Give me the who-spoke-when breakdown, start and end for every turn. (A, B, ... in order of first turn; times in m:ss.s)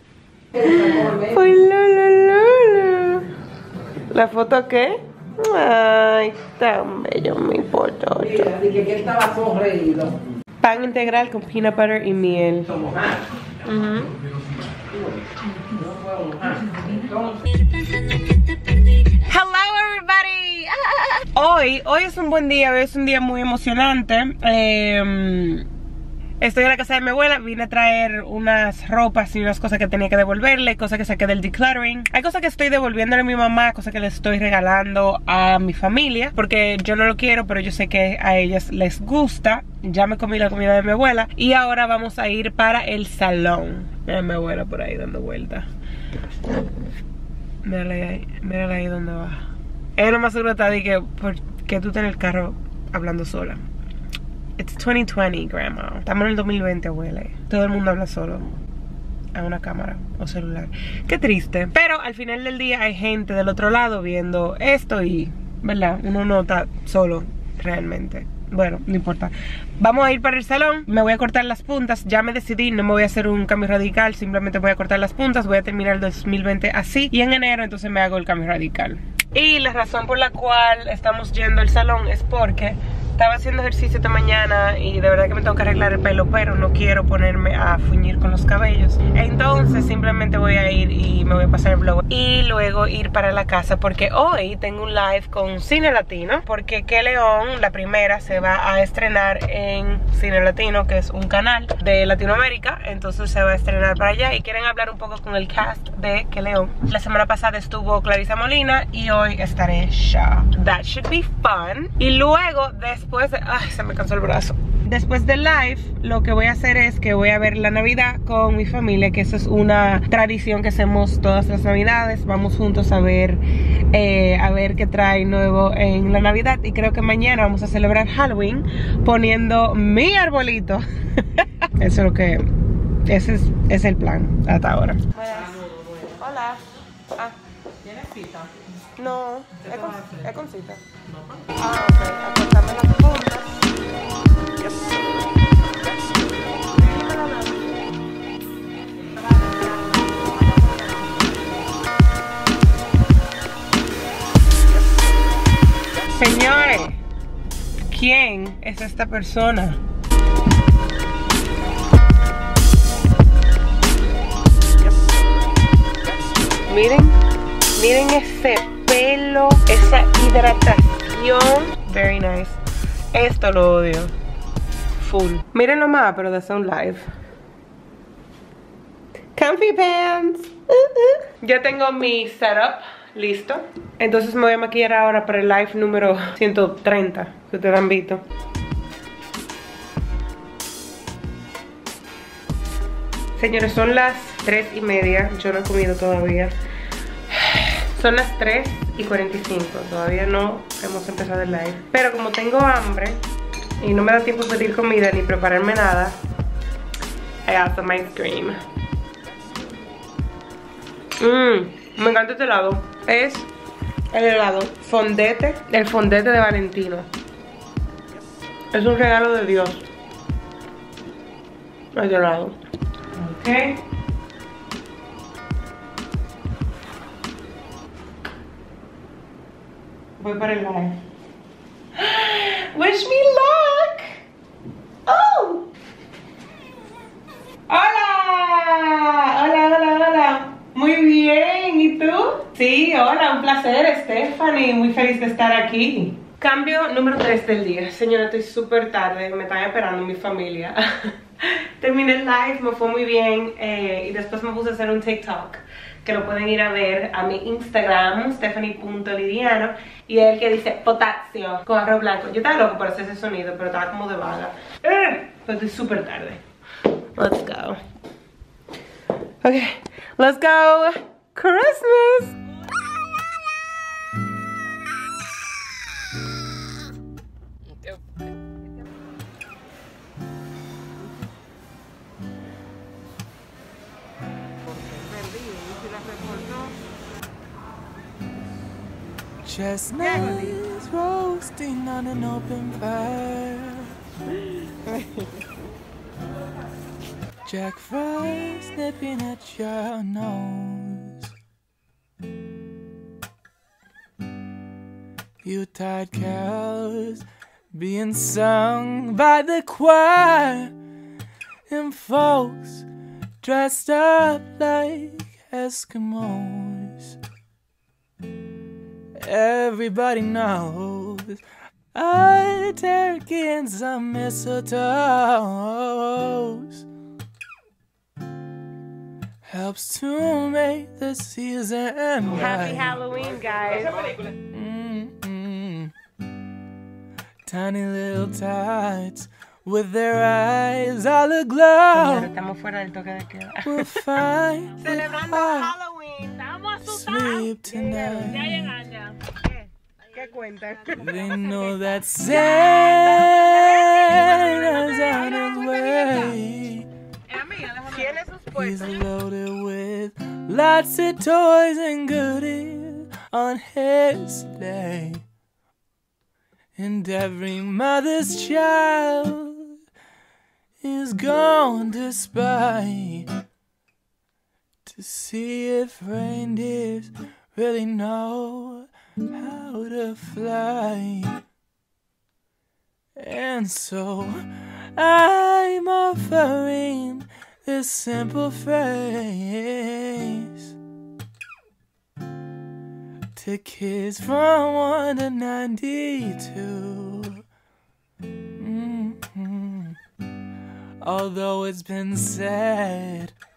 0:00.6-0:03.3 A
0:04.1-0:08.7 A
0:08.5-0:10.2 B
0:10.6-0:13.0 A
0:13.6-0:14.2 A
0:15.8-0:17.3 B
0:19.1-0:25.7 A
0:26.4-0:45.7 A
0:47.6-0:49.4 A
0:50.0-0:53.6 A
0:54.6-0:58.5 A
0:59.4-2:12.5 A
2:13.0-2:17.4 A
2:18.0-2:18.5 B
2:19.0-2:20.8 A
2:21.5-2:23.7 A
2:26.5-2:27.8 A
2:29.3-2:31.0 A
2:36.1-2:37.0 A
2:37.9-2:39.8 A
2:46.7-2:47.2 A
2:47.8-2:52.6 A
2:53.1-2:54.1 A
2:55.0-2:57.1 A
2:59.4-3:08.2 A
3:13.4-3:16.6 A
3:17.3-3:23.2 A
3:23.8-3:26.2 A
3:27.4-3:28.6 A
3:31.2-3:33.5 A
3:34.1-3:37.1 A
3:38.7-3:39.8 A
3:41.9-3:42.6 A
3:43.1-3:43.8 A
3:50.2-3:51.0 A
3:52.0-3:54.2 A
3:55.1-3:55.7 A
3:57.7-4:26.4 A
4:27.2-4:27.8 A
4:29.4-4:32.4 A
4:45.0-4:46.7 A
4:49.4-4:54.0 C
4:50.0-4:50.6 A
4:57.5-5:01.3 C
5:05.4-5:10.7 C
5:11.7-5:12.9 C
5:13.4-5:17.2 C
5:19.2-5:21.4 C
5:21.9-5:26.9 C
5:29.5-5:33.0 C
5:32.3-5:34.1 A
5:34.3-5:35.9 C
5:37.5-5:42.3 C
5:41.9-5:44.0 A
5:43.6-5:45.8 C
5:44.8-5:51.8 A
5:46.8-5:48.8 C
5:51.0-5:56.9 C
5:52.3-5:56.4 A
5:57.3-5:59.1 A
5:58.5-6:05.2 C
6:06.8-6:09.8 C
6:10.8-6:13.3 C
6:14.9-6:21.4 C
6:23.2-6:30.8 C
6:33.4-6:37.4 C
6:38.6-6:40.0 C
6:41.0-6:43.3 C